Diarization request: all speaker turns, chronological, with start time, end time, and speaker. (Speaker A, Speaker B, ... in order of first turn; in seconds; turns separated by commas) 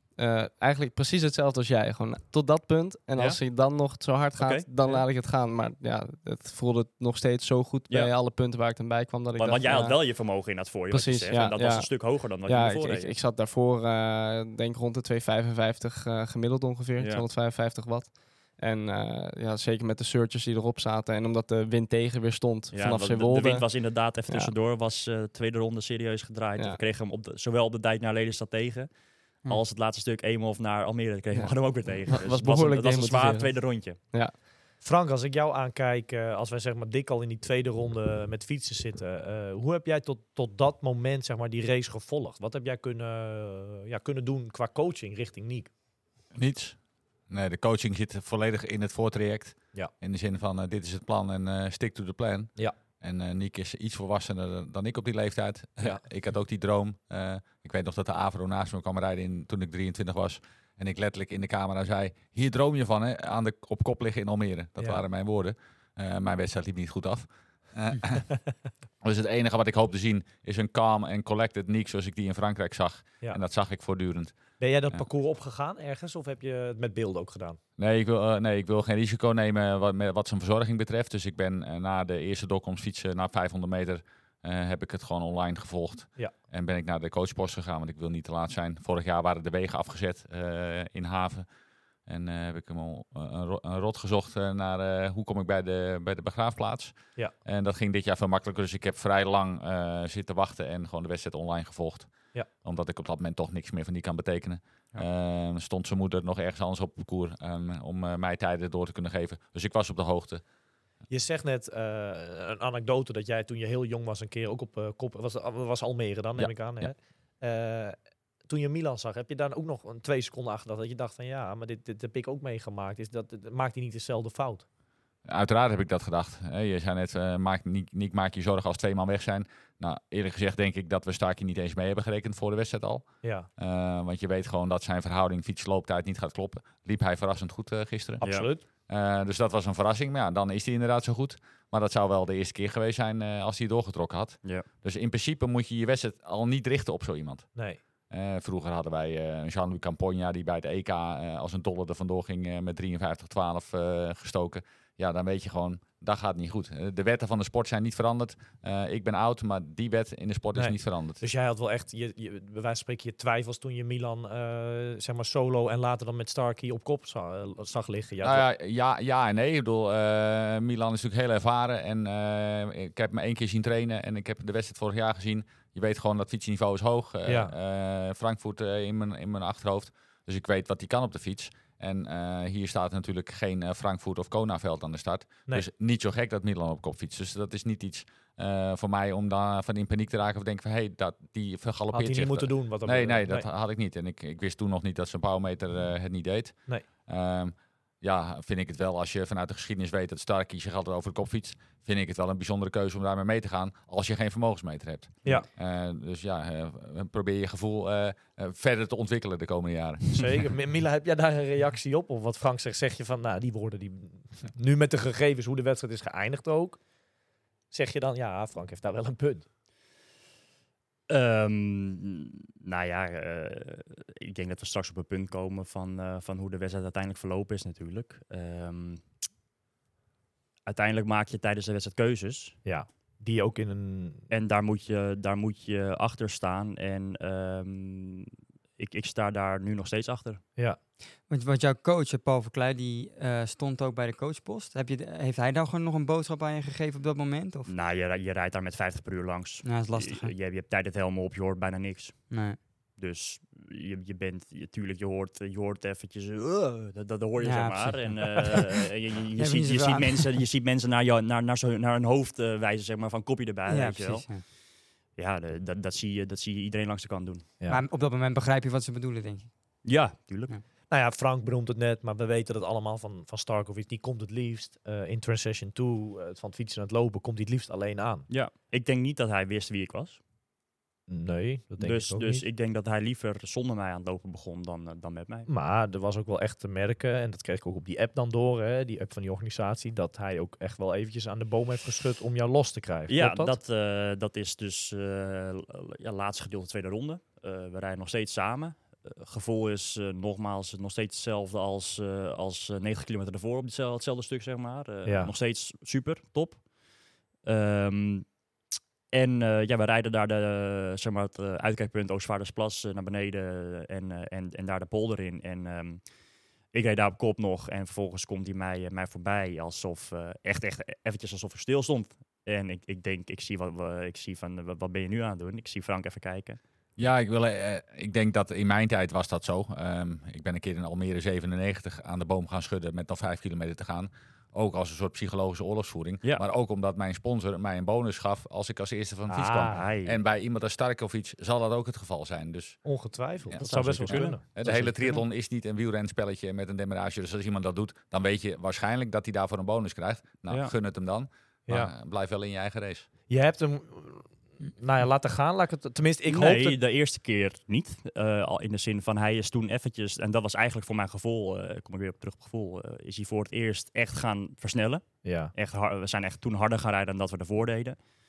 Speaker A: 0.2-10.0, Speaker B: 4.4-5.0, Speaker B: 9.4-13.1, Speaker A: 10.9-11.9, Speaker A: 12.4-23.7, Speaker B: 17.0-17.2, Speaker B: 22.7-28.9, Speaker A: 24.3-24.5, Speaker B: 29.4-34.0, Speaker A: 31.3-34.3, Speaker C: 34.8-45.7, Speaker D: 46.4-68.4, Speaker C: 64.8-65.0, Speaker D: 69.0-74.4, Speaker C: 74.6-77.6, Speaker D: 77.8-91.5, Speaker D: 92.1-110.4, Speaker C: 111.1-118.0, Speaker D: 116.4-116.9, Speaker C: 118.5-124.6, Speaker D: 125.2-147.6, Speaker C: 133.2-133.5, Speaker C: 138.2-138.6, Speaker C: 147.5-147.8, Speaker D: 148.1-161.2, Speaker C: 160.5-168.4, Speaker D: 168.2-210.5, Speaker C: 177.2-177.5, Speaker C: 191.9-193.4, Speaker C: 210.1-216.8, Speaker C: 217.7-219.4, Speaker B: 221.1-229.0, Speaker B: 230.7-232.6, Speaker C: 232.6-234.2, Speaker B: 234.3-240.4, Speaker E: 241.3-247.7, Speaker B: 247.7-264.4, Speaker E: 249.6-250.3, Speaker E: 252.3-252.6, Speaker E: 257.4-258.8, Speaker E: 259.4-260.4, Speaker E: 263.7-264.4, Speaker B: 265.1-267.5, Speaker E: 267.7-269.5, Speaker B: 269.8-270.6, Speaker C: 270.9-278.2, Speaker B: 278.3-280.2, Speaker C: 281.1-282.4, Speaker B: 281.8-285.5, Speaker C: 285.5-293.6, Speaker B: 293.1-306.6, Speaker C: 305.1-305.3, Speaker B: 307.4-308.3, Speaker B: 309.1-316.0, Speaker B: 316.7-326.6, Speaker D: 327.0-342.9, Speaker C: 339.3-339.8, Speaker B: 339.6-340.2, Speaker C: 342.8-344.9, Speaker D: 343.5-353.1, Speaker B: 343.6-345.1, Speaker C: 353.3-356.8, Speaker B: 356.3-368.0, Speaker C: 365.2-365.5